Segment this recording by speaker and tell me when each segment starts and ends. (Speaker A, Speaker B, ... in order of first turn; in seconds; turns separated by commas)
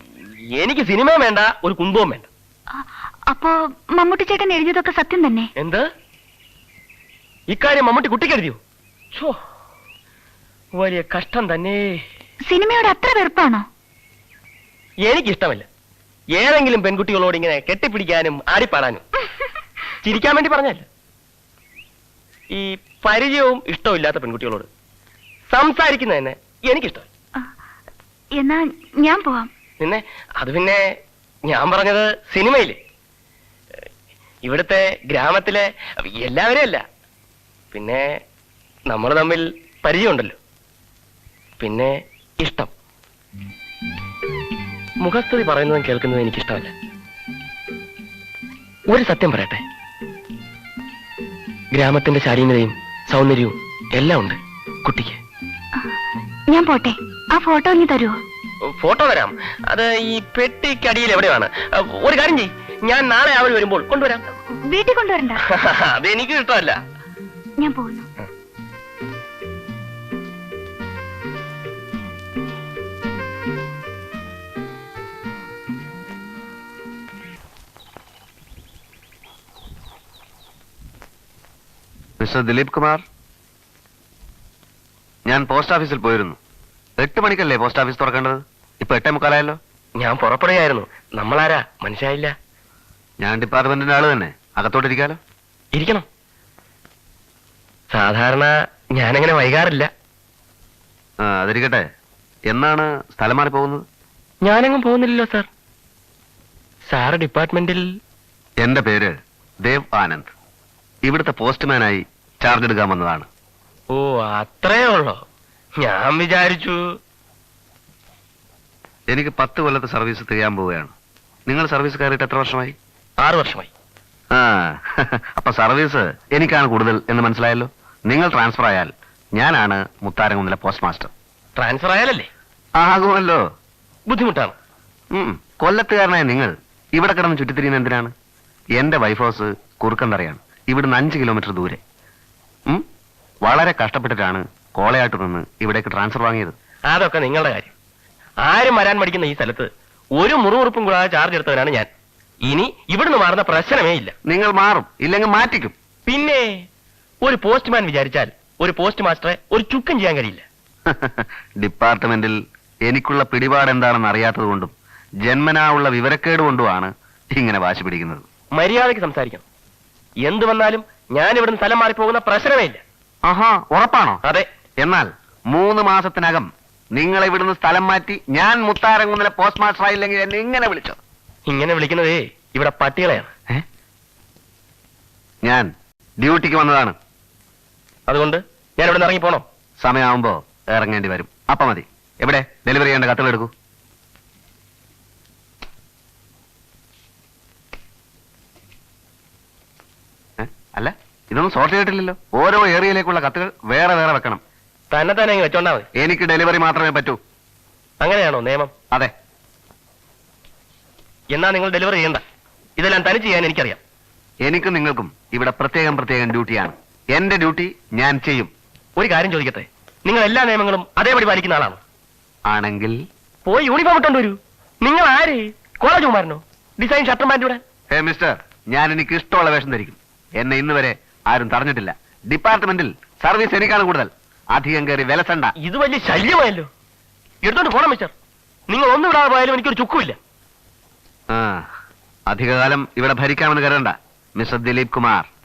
Speaker A: 0.6-2.3, Speaker B: 2.7-5.5, Speaker A: 5.6-5.8, Speaker A: 7.5-8.6, Speaker A: 10.8-12.0, Speaker B: 12.5-13.6, Speaker A: 15.0-15.7, Speaker A: 16.3-19.0, Speaker A: 20.0-20.8, Speaker A: 22.5-24.7, Speaker A: 25.5-27.1, Speaker B: 28.4-29.5, Speaker A: 29.8-30.8, Speaker A: 31.4-32.8, Speaker A: 34.4-35.7, Speaker A: 36.2-36.8, Speaker A: 37.7-38.1, Speaker A: 38.9-40.4, Speaker A: 41.6-42.7, Speaker A: 45.0-46.7, Speaker A: 48.9-49.6, Speaker A: 51.7-55.2, Speaker B: 56.5-58.1, Speaker A: 58.8-64.2, Speaker B: 64.7-65.4, Speaker A: 65.5-66.8, Speaker B: 67.6-68.1, Speaker C: 82.2-83.0, Speaker C: 85.3-86.4, Speaker C: 87.0-89.6, Speaker A: 90.0-92.3, Speaker C: 93.2-95.2, Speaker A: 95.7-96.0, Speaker A: 97.9-99.9, Speaker C: 101.2-101.8, Speaker C: 102.5-103.8, Speaker A: 104.4-105.5, Speaker A: 106.9-107.8, Speaker C: 108.6-110.3, Speaker C: 111.0-113.3, Speaker A: 113.9-115.2, Speaker A: 115.8-116.8, Speaker C: 119.1-120.9, Speaker C: 121.5-122.7, Speaker A: 123.2-123.7, Speaker C: 124.3-131.1, Speaker A: 131.6-132.3, Speaker C: 132.8-133.4, Speaker A: 134.1-134.5, Speaker C: 135.1-138.1, Speaker C: 138.8-141.8, Speaker C: 143.4-146.5, Speaker A: 146.9-147.7, Speaker A: 148.4-151.9, Speaker A: 152.4-154.1, Speaker C: 154.3-155.7, Speaker A: 156.1-156.5, Speaker A: 157.2-160.4, Speaker C: 160.9-164.7, Speaker C: 165.2-168.2, Speaker A: 168.5-169.4, Speaker A: 170.2-172.8, Speaker C: 173.2-174.2, Speaker C: 174.8-181.0, Speaker A: 181.5-183.3, Speaker C: 185.4-186.9, Speaker A: 188.1-189.4, Speaker C: 189.8-193.5, Speaker C: 200.4-204.4, Speaker A: 204.9-205.9, Speaker C: 206.0-207.2, Speaker A: 208.0-208.7, Speaker A: 211.3-212.2, Speaker A: 212.8-213.8, Speaker C: 214.4-218.5, Speaker A: 219.0-221.8, Speaker C: 222.5-223.0, Speaker A: 223.4-227.6, Speaker C: 227.9-235.5, Speaker A: 235.6-236.7, Speaker A: 237.4-238.1, Speaker A: 238.7-240.2, Speaker C: 241.3-241.6, Speaker C: 242.3-245.3